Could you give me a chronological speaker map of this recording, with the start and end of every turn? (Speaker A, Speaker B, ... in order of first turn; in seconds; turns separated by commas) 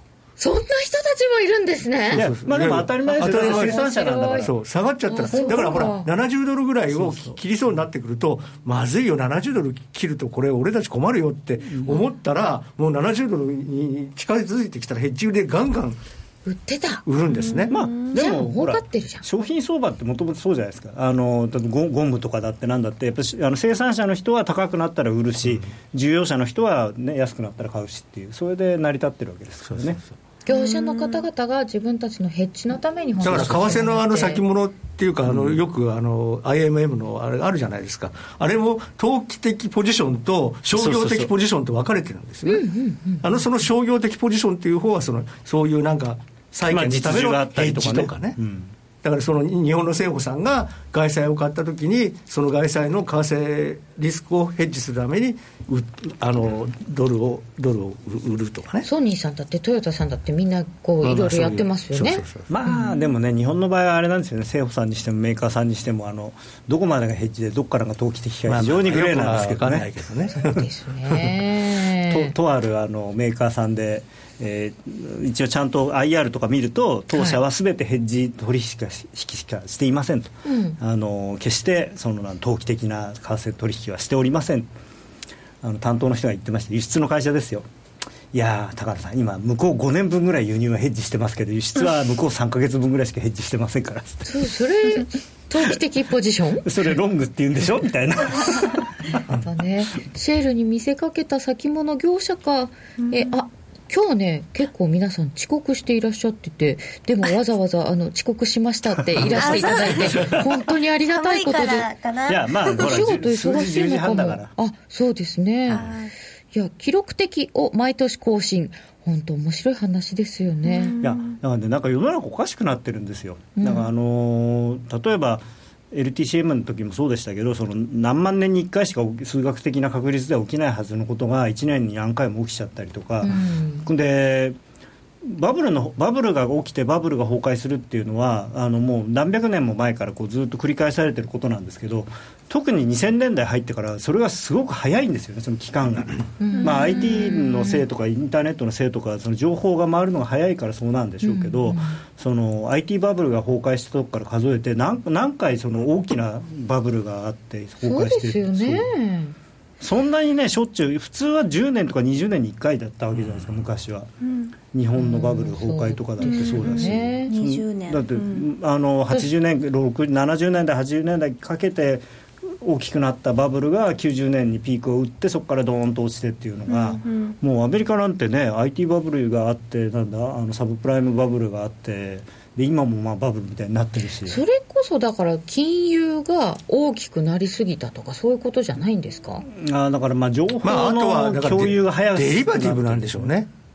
Speaker A: 0.4-2.3, Speaker B: 2.1-3.8, Speaker C: 2.1-4.5, Speaker A: 3.1-4.5, Speaker B: 4.4-16.0, Speaker A: 5.1-6.1, Speaker C: 6.9-7.4, Speaker A: 16.4-17.0, Speaker B: 17.1-17.8, Speaker D: 17.3-18.2, Speaker C: 17.7-30.0, Speaker A: 18.1-19.2, Speaker B: 29.7-30.1, Speaker A: 30.4-34.4, Speaker D: 30.5-31.2, Speaker B: 33.2-42.6, Speaker C: 35.3-35.5, Speaker C: 40.7-41.3, Speaker A: 42.5-43.3, Speaker B: 43.2-48.4, Speaker C: 46.6-48.7, Speaker B: 49.0-58.9, Speaker A: 58.8-62.9, Speaker B: 61.0-62.5, Speaker C: 62.5-69.9, Speaker B: 68.5-71.3, Speaker A: 70.3-72.3, Speaker C: 72.1-84.7, Speaker A: 77.1-77.4, Speaker A: 80.4-80.8, Speaker C: 85.6-87.7, Speaker C: 88.3-94.3, Speaker A: 94.2-96.7, Speaker C: 96.6-98.8, Speaker A: 99.3-111.9, Speaker D: 103.0-103.3, Speaker C: 109.2-110.4, Speaker D: 109.3-110.5, Speaker D: 111.1-112.9, Speaker C: 112.3-114.5, Speaker A: 112.8-115.8, Speaker D: 115.7-116.1, Speaker A: 116.5-120.9, Speaker D: 120.6-121.4, Speaker C: 121.0-134.6, Speaker A: 123.6-123.9, Speaker A: 133.2-133.9, Speaker C: 135.2-158.9, Speaker A: 146.4-147.8, Speaker D: 146.6-147.3, Speaker A: 151.2-152.0, Speaker A: 157.8-159.3, Speaker C: 159.8-164.1, Speaker D: 164.2-164.5, Speaker C: 164.7-172.0, Speaker A: 164.9-167.3, Speaker D: 166.2-168.5, Speaker C: 172.6-184.4, Speaker D: 176.7-177.3, Speaker A: 184.2-189.4, Speaker C: 189.5-193.3, Speaker B: 190.6-193.5